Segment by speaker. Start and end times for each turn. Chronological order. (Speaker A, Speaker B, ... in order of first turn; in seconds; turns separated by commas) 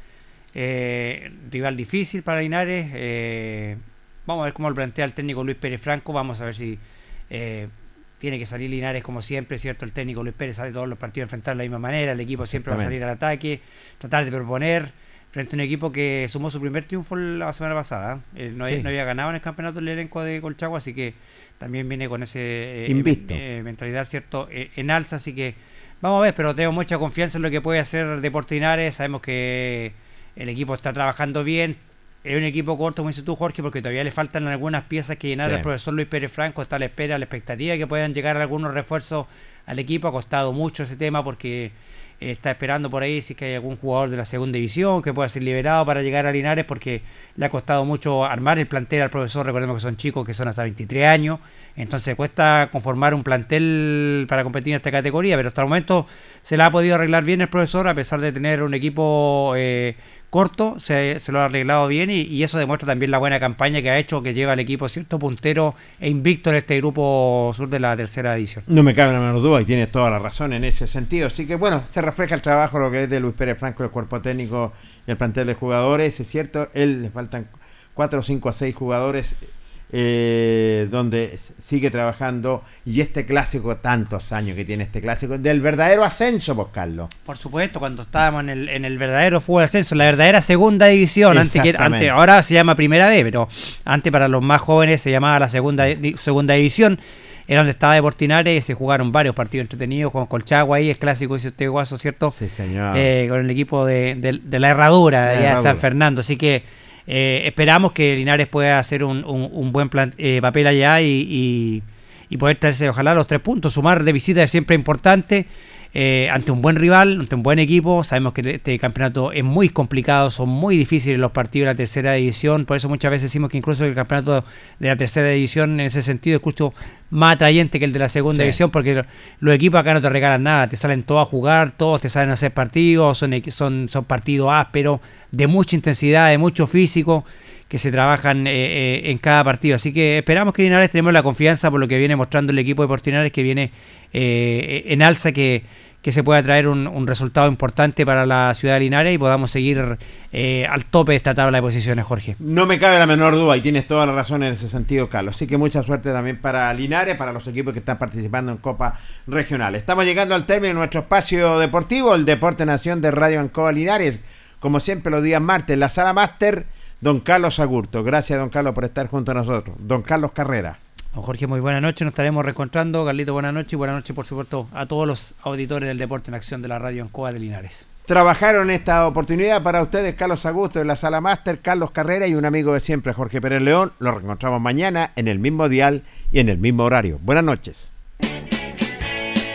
Speaker A: 0.5-68.6, Speaker B: 12.4-12.9, Speaker B: 22.9-23.4, Speaker B: 68.7-87.1, Speaker A: 87.2-102.3, Speaker B: 91.3-92.1, Speaker B: 102.3-103.1, Speaker A: 102.9-152.4, Speaker B: 105.2-105.8, Speaker B: 128.3-128.6, Speaker B: 152.4-170.8, Speaker A: 171.1-177.8, Speaker B: 178.1-187.9